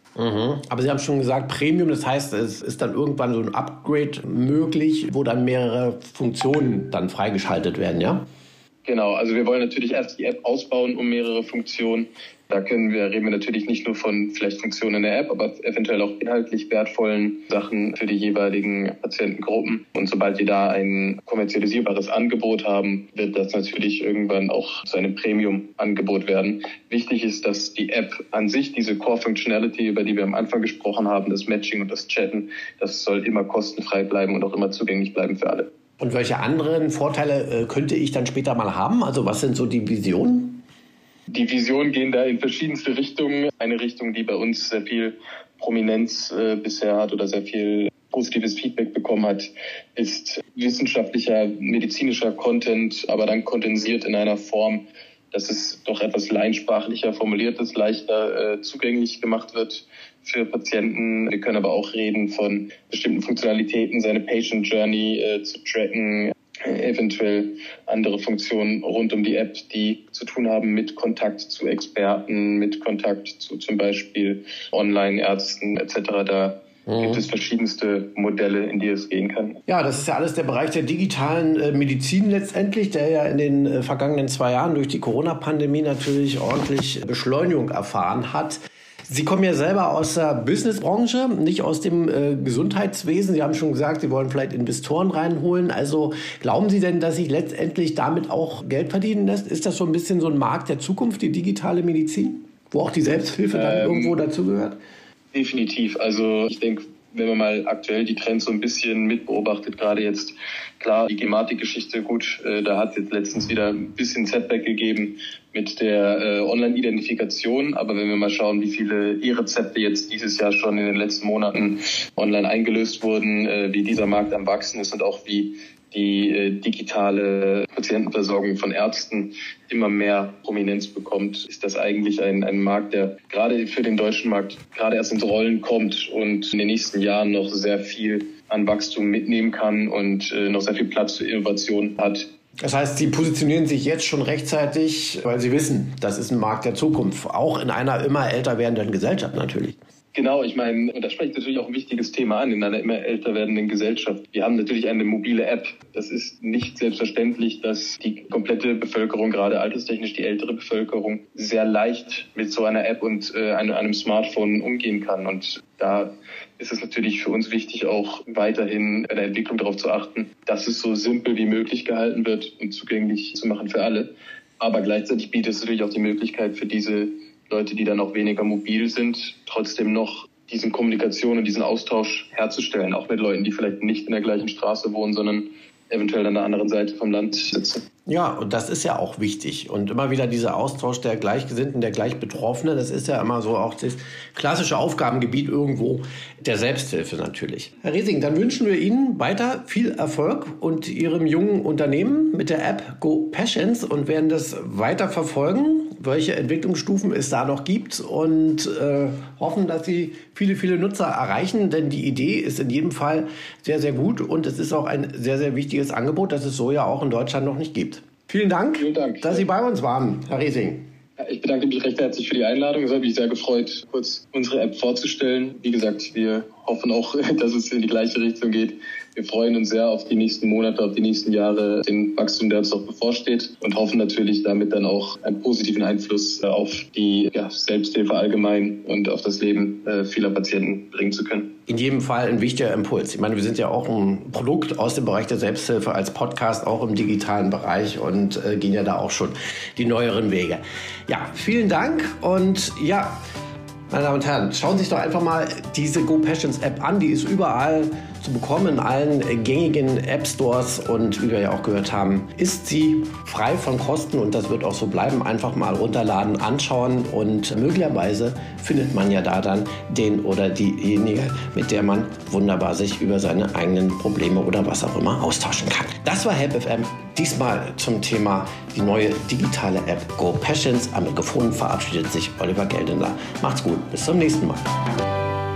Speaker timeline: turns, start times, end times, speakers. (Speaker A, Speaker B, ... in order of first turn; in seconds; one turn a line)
Speaker A: 0.1-8.2
Speaker B: 8.8-35.7
Speaker A: 36.0-40.6
Speaker B: 41.3-79.6
Speaker A: 76.9-77.2
Speaker A: 79.7-104.8
Speaker B: 103.5-104.2
Speaker B: 105.3-142.3
Speaker A: 142.6-149.8
Speaker B: 150.1-187.8
Speaker A: 188.1-220.8
Speaker B: 218.8-219.5
Speaker B: 221.2-241.5
Speaker A: 241.7-253.2
Speaker A: 253.9-284.6